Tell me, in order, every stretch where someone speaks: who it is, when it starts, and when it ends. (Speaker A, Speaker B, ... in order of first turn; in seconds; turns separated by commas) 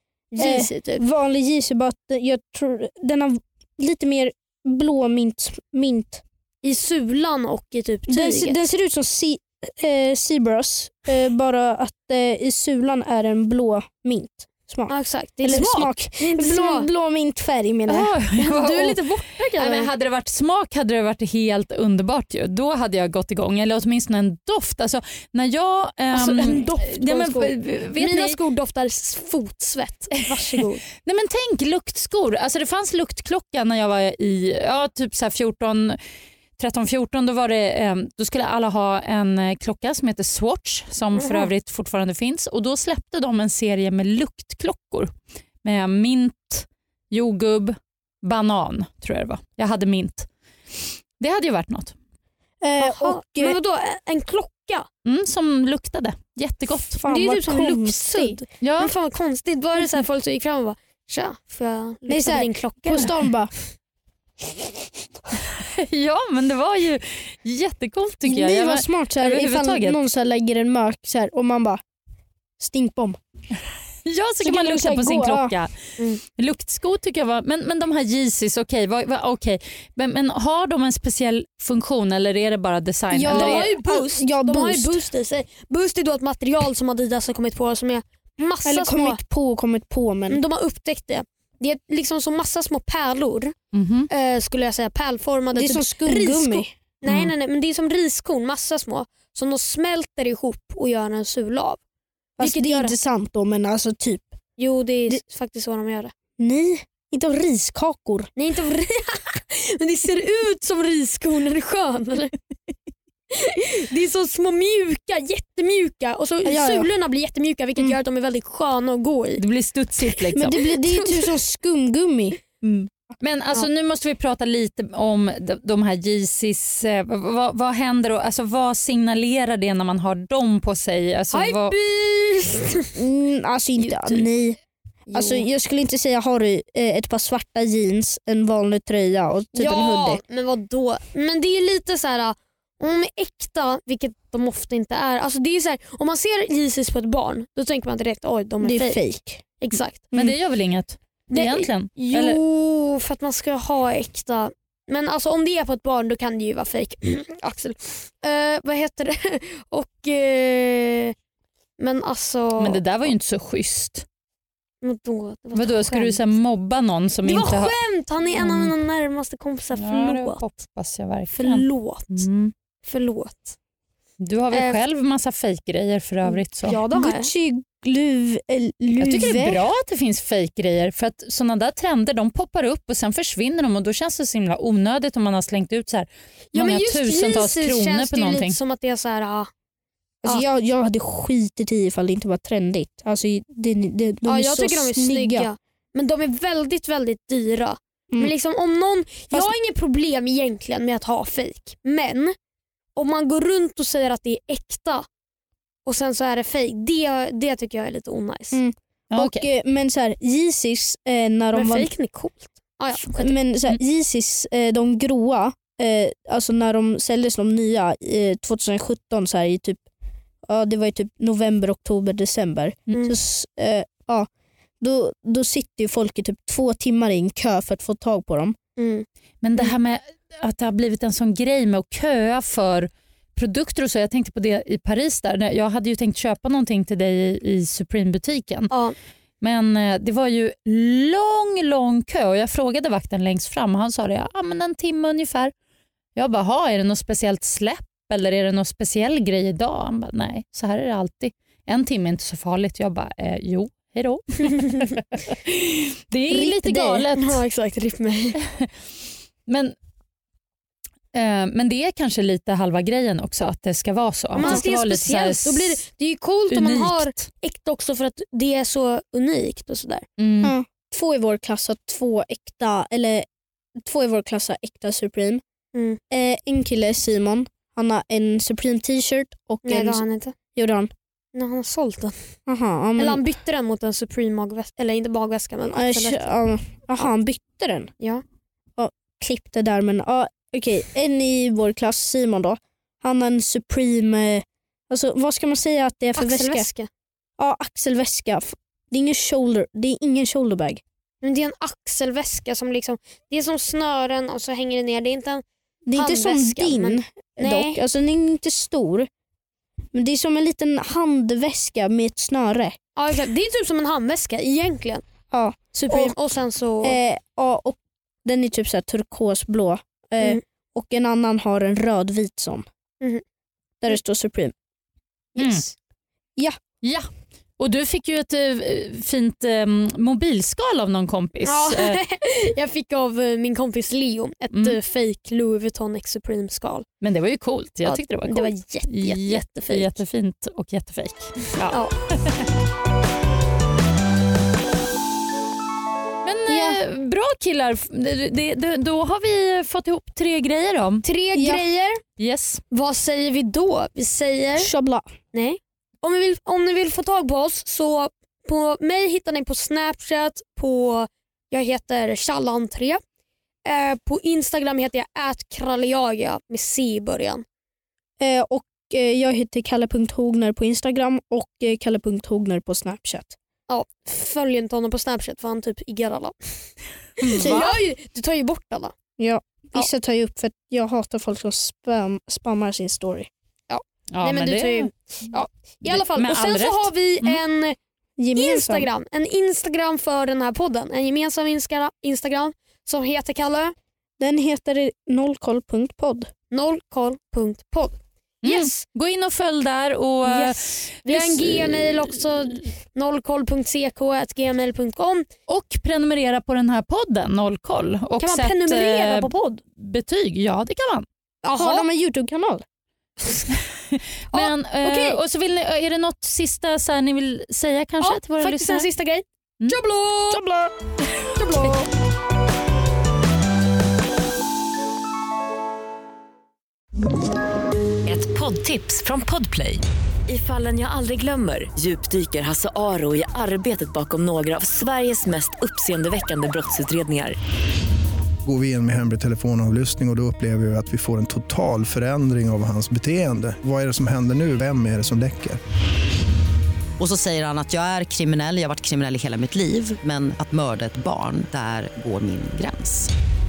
Speaker A: 0.3-1.0, Speaker B: 0.4-6.2, Speaker A: 6.6-8.6, Speaker B: 8.1-14.9, Speaker A: 14.9-16.9, Speaker B: 15.4-18.1, Speaker C: 17.9-28.4, Speaker A: 18.3-19.9, Speaker A: 26.1-30.8, Speaker C: 31.0-36.0, Speaker C: 36.6-45.1, Speaker A: 41.2-41.5, Speaker C: 45.6-50.3, Speaker C: 51.2-51.9, Speaker B: 52.6-53.6, Speaker A: 52.8-54.9, Speaker C: 55.0-57.0, Speaker B: 56.9-58.4, Speaker A: 57.1-63.1, Speaker C: 58.6-58.9, Speaker B: 62.1-63.5, Speaker C: 65.3-70.0, Speaker B: 68.2-71.8, Speaker B: 72.6-73.2, Speaker C: 74.0-83.7, Speaker B: 74.4-75.5, Speaker B: 83.1-85.1, Speaker A: 83.3-89.2, Speaker B: 88.6-90.4, Speaker A: 90.3-93.5, Speaker C: 93.7-94.1, Speaker A: 94.1-101.8, Speaker B: 95.5-96.7, Speaker C: 97.0-97.3, Speaker B: 102.4-104.3, Speaker A: 102.4-103.0, Speaker A: 104.6-106.1, Speaker B: 106.4-108.3, Speaker A: 108.3-112.3, Speaker A: 113.3-119.4, Speaker B: 116.4-116.9, Speaker C: 119.4-120.6, Speaker A: 120.0-121.3, Speaker B: 120.3-122.4, Speaker C: 122.6-131.7, Speaker A: 131.3-132.9, Speaker B: 132.9-134.6, Speaker A: 133.8-134.2, Speaker A: 135.1-135.4, Speaker B: 135.1-140.2, Speaker A: 139.5-149.0, Speaker B: 148.6-149.4, Speaker A: 149.6-150.1, Speaker C: 150.1-152.4, Speaker A: 151.3-161.1, Speaker A: 161.8-163.1, Speaker C: 162.6-164.0, Speaker A: 164.8-166.2, Speaker C: 165.5-167.7, Speaker A: 167.2-170.4, Speaker C: 168.3-168.7, Speaker C: 169.7-172.5, Speaker A: 171.3-172.2, Speaker A: 172.8-173.6, Speaker C: 174.2-176.8, Speaker A: 174.5-174.8, Speaker A: 176.3-177.3, Speaker B: 176.9-179.6, Speaker C: 179.0-188.6, Speaker A: 186.5-189.5, Speaker B: 190.2-195.5, Speaker A: 194.2-202.3, Speaker A: 202.9-205.1, Speaker A: 205.8-208.6, Speaker B: 208.5-211.9, Speaker C: 209.1-209.4, Speaker A: 211.5-213.4, Speaker B: 212.9-219.8, Speaker B: 220.5-224.3, Speaker B: 224.8-228.6, Speaker A: 228.8-229.1, Speaker C: 229.4-238.7, Speaker A: 238.7-238.9, Speaker C: 239.4-245.5, Speaker C: 246.2-257.4, Speaker B: 256.3-257.1, Speaker A: 257.1-258.4, Speaker C: 259.5-259.7, Speaker C: 261.1-265.8, Speaker A: 264.3-270.0, Speaker B: 264.4-264.6, Speaker C: 266.5-267.3, Speaker C: 270.2-270.5, Speaker B: 270.4-273.2, Speaker B: 273.8-275.4, Speaker A: 275.7-276.0, Speaker B: 276.1-280.0, Speaker A: 279.6-280.3, Speaker B: 280.5-280.9, Speaker A: 281.3-282.1, Speaker B: 282.5-283.2, Speaker A: 283.0-286.3, Speaker B: 285.7-287.9, Speaker B: 288.8-296.7, Speaker A: 296.1-296.9, Speaker B: 297.4-300.8, Speaker A: 301.2-307.8, Speaker B: 305.9-309.1, Speaker B: 309.9-312.8, Speaker A: 312.9-315.0, Speaker B: 315.3-316.1, Speaker A: 315.7-317.0, Speaker B: 316.8-322.6, Speaker B: 323.8-324.5, Speaker C: 325.4-325.6, Speaker A: 325.4-325.7, Speaker C: 327.6-332.0, Speaker A: 331.4-336.9, Speaker C: 334.5-334.8, Speaker C: 337.0-342.4, Speaker A: 337.8-340.0, Speaker C: 346.2-351.0, Speaker B: 346.5-346.8, Speaker A: 351.0-352.0, Speaker B: 351.3-351.7, Speaker C: 352.2-352.6, Speaker A: 352.7-354.7, Speaker B: 354.6-355.1, Speaker A: 355.3-363.0, Speaker A: 363.6-367.4, Speaker B: 368.2-373.4, Speaker A: 373.7-376.3, Speaker C: 377.2-377.7, Speaker A: 377.3-378.9, Speaker B: 377.4-377.7, Speaker B: 379.2-383.3, Speaker A: 383.7-387.8, Speaker C: 384.1-384.9, Speaker C: 385.8-387.4, Speaker B: 388.2-388.9, Speaker A: 388.3-393.7, Speaker B: 394.2-396.3, Speaker A: 396.5-398.8, Speaker C: 398.4-402.3, Speaker A: 400.2-405.3, Speaker C: 405.5-411.1, Speaker A: 408.2-409.6, Speaker A: 411.4-411.9, Speaker B: 411.6-412.6, Speaker A: 413.2-413.5, Speaker C: 413.9-418.9, Speaker A: 414.3-415.2, Speaker A: 418.0-420.4, Speaker B: 420.3-420.7, Speaker A: 421.3-421.9, Speaker D: 428.1-429.6, Speaker D: 430.3-430.9, Speaker E: 433.8-437.2, Speaker D: 438.4-445.6, Speaker F: 447.0-453.1